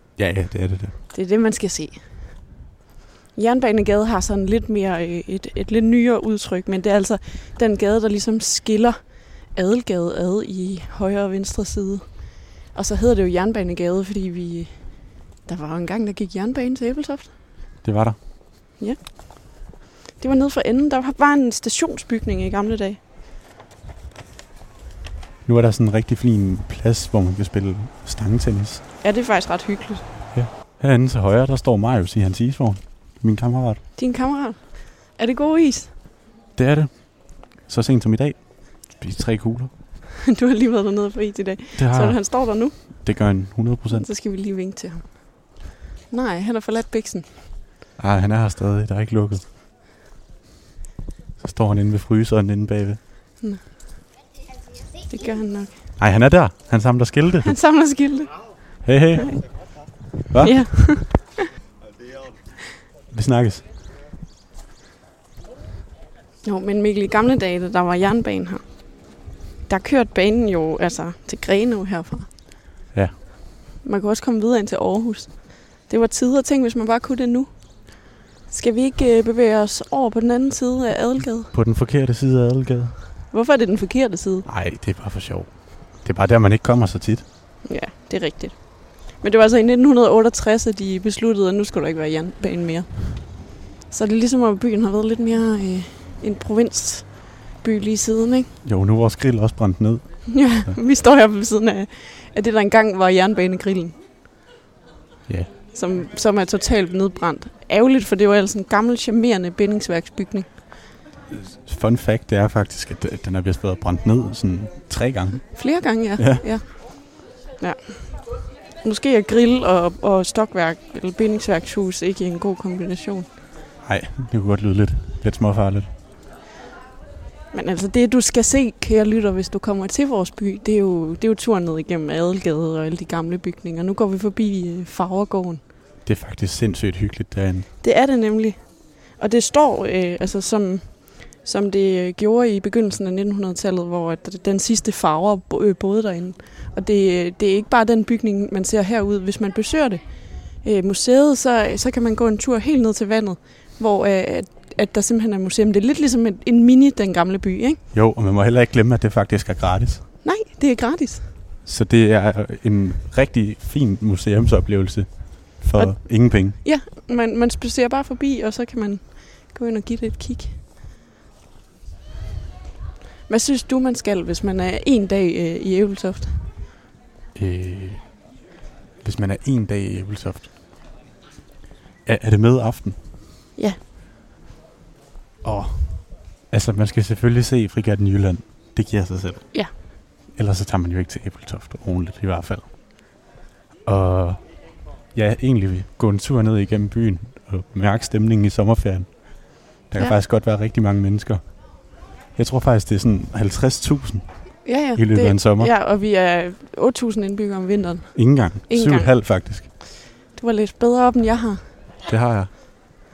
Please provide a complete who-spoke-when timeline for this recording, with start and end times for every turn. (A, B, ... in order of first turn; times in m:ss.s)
0:00.2-0:01.0 A
0:01.1-0:02.3 B
0:03.4-0:17.3 B
0:17.8-0:18.2 A
0:18.8-0:19.6 B
0:20.2-0:23.0 B
0:25.4-0:28.8 A
0:29.0-0:30.1 B
0:30.3-0:33.8 A
0:34.0-0:35.9 B
0:36.6-0:39.7 A
0:40.2-0:43.1 B
0:41.8-0:44.1 A
0:43.9-0:45.6 B
0:46.1-0:47.3 B
0:48.0-0:49.4 A
0:51.4-0:53.0 A
0:55.1-0:55.8 B
0:56.0-0:57.6 A
0:57.4-0:59.4 B
0:58.8-0:59.6 A
1:00.3-1:00.6 A
1:00.4-1:01.5 B
1:03.1-1:03.6 A
1:06.4-1:08.7 B
1:09.7-1:12.3 B
1:13.8-1:21.5 B
1:21.5-1:23.0 A
1:23.3-1:24.5 B
1:24.5-1:27.2 A
1:27.6-1:38.5 B
1:38.6-1:40.8 A
1:40.3-1:44.0 B
1:45.3-1:45.5 A
1:45.7-1:50.6 B
1:51.3-1:55.7 A
1:55.5-2:03.3 B
1:56.2-1:56.5 A
2:03.8-2:05.9 A
2:07.5-2:15.6 B
2:16.0-2:17.7 A
2:17.8-2:37.8 B
2:37.9-2:40.0 A
2:40.2-2:41.3 B
2:41.6-2:46.6 A
2:45.8-2:50.6 B
2:53.3-2:56.4 B
2:57.4-2:58.2 A
2:59.0-3:00.5 A
3:02.0-3:03.0 A
3:05.4-3:09.7 A
3:10.3-3:12.7 A
3:13.8-3:21.4 A
3:22.3-3:25.7 A
3:24.6-3:29.1 B
3:28.2-3:29.7 A
3:30.3-3:31.6 B
3:32.1-3:32.5 A